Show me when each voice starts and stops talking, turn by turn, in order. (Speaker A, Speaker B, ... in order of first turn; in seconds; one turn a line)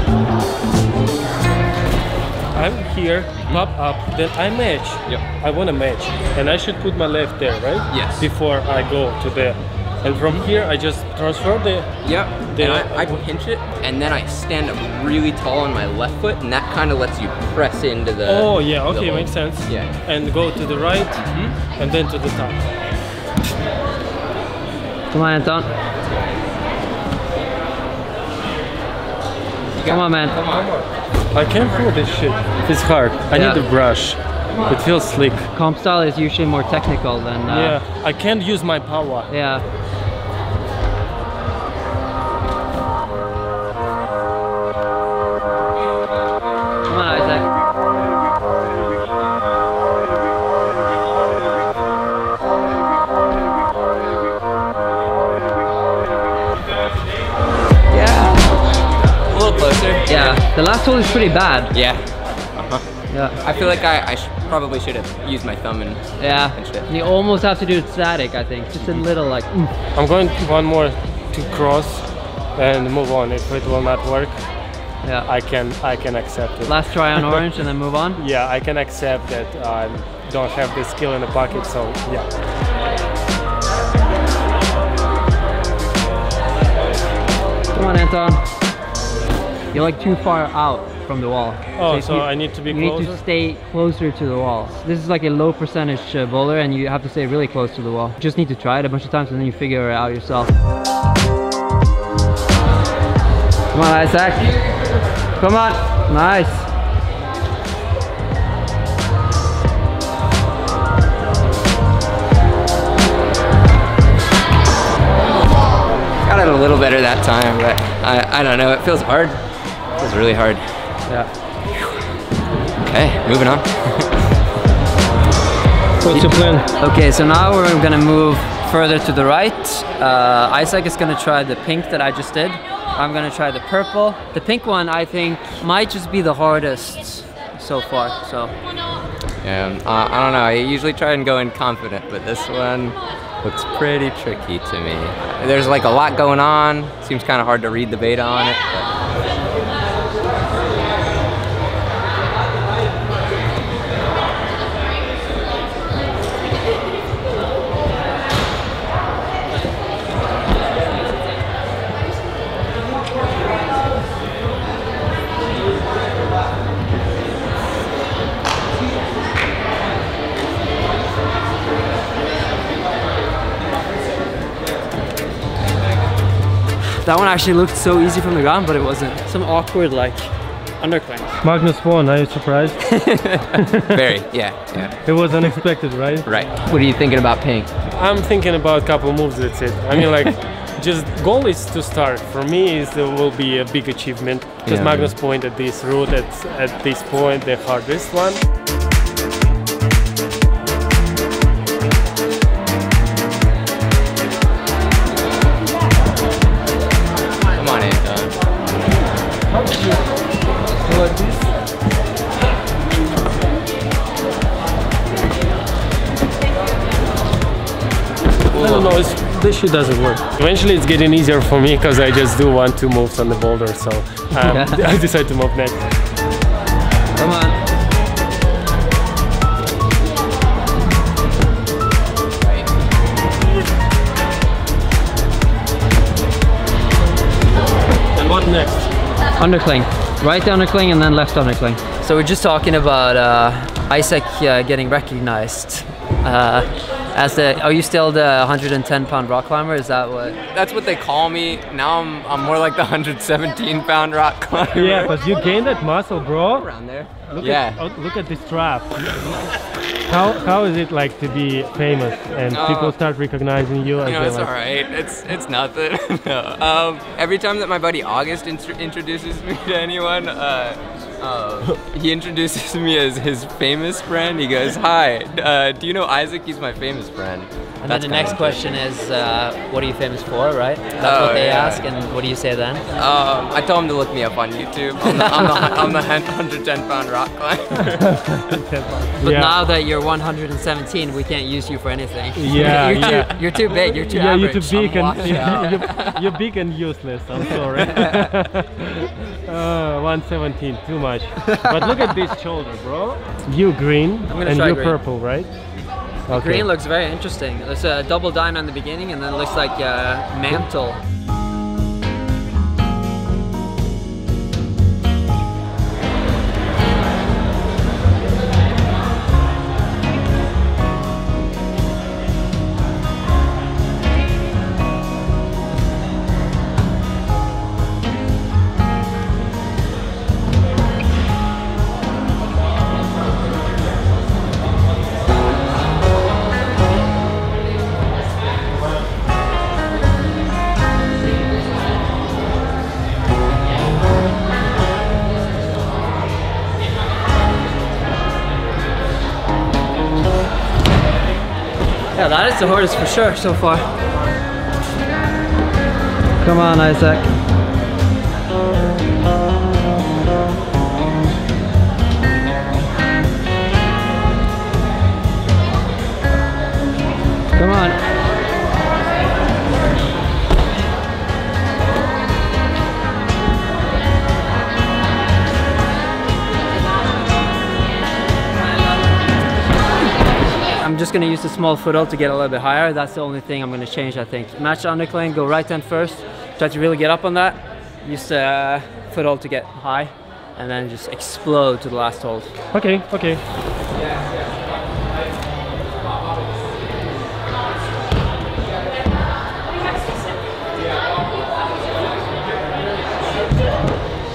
Speaker A: 2.5-13.2
Speaker B: 7.9-8.3
Speaker B: 12.0-19.9
Speaker A: 18.2-22.7
Speaker B: 21.2-21.5
Speaker C: 25.1-25.7
Speaker B: 29.7-30.7
Speaker C: 29.9-30.4
Speaker A: 30.5-35.5
Speaker C: 33.3-33.6
Speaker C: 35.5-37.8
Speaker A: 37.5-39.3
Speaker C: 39.3-39.6
Speaker C: 46.9-47.5
Speaker B: 57.9-58.4
Speaker B: 59.3-60.3
Speaker C: 60.1-61.7
Speaker B: 61.7-62.0
Speaker B: 62.5-62.8
Speaker C: 63.1-63.4
Speaker B: 63.4-66.8
Speaker C: 66.2-69.7
Speaker A: 69.9-74.4
Speaker A: 75.2-77.4
Speaker C: 76.7-78.2
Speaker A: 78.2-82.3
Speaker C: 87.7-88.5
Speaker C: 89.7-100.5
Speaker A: 91.8-93.2
Speaker C: 103.7-104.5
Speaker C: 105.4-106.7
Speaker B: 116.2-119.4
Speaker B: 120.0-120.6
Speaker B: 122.8-124.1
Speaker A: 126.0-126.7
Speaker C: 126.1-138.5
Speaker B: 139.4-148.9
Speaker C: 177.0-181.4
Speaker A: 181.4-182.9
Speaker C: 183.1-183.4
Speaker B: 183.4-185.5
Speaker A: 183.5-184.0
Speaker A: 185.0-186.3
Speaker B: 186.2-187.7
Speaker A: 187.9-198.4
Speaker B: 194.6-195.1
Speaker B: 207.6-208.4
Speaker C: 210.9-211.4
Speaker B: 218.5-218.9
Speaker A: 218.5-225.9
Speaker C: 224.4-224.8
Speaker C: 227.2-227.6
Speaker B: 232.4-232.7
Speaker A: 238.1-238.9
Speaker C: 239.4-250.4
Speaker B: 250.5-255.2
Speaker A: 254.7-256.7
Speaker B: 256.5-257.8
Speaker A: 257.3-259.4
Speaker A: 260.1-264.5
Speaker B: 262.5-262.9
Speaker B: 264.0-278.7
Speaker C: 277.8-282.9
Speaker B: 281.0-281.8
Speaker B: 282.9-288.1
Speaker C: 285.0-285.8
Speaker A: 287.9-289.5
Speaker C: 289.2-296.2
Speaker A: 292.4-305.5
Speaker B: 292.8-293.2
Speaker B: 294.7-295.9
Speaker C: 297.9-298.2
Speaker C: 301.4-302.1
Speaker C: 304.3-305.0
Speaker A: 306.3-306.7
Speaker C: 306.3-311.0
Speaker C: 352.1-353.9
Speaker C: 356.4-357.3
Speaker C: 367.6-368.0
Speaker C: 380.8-392.5
Speaker A: 392.7-393.4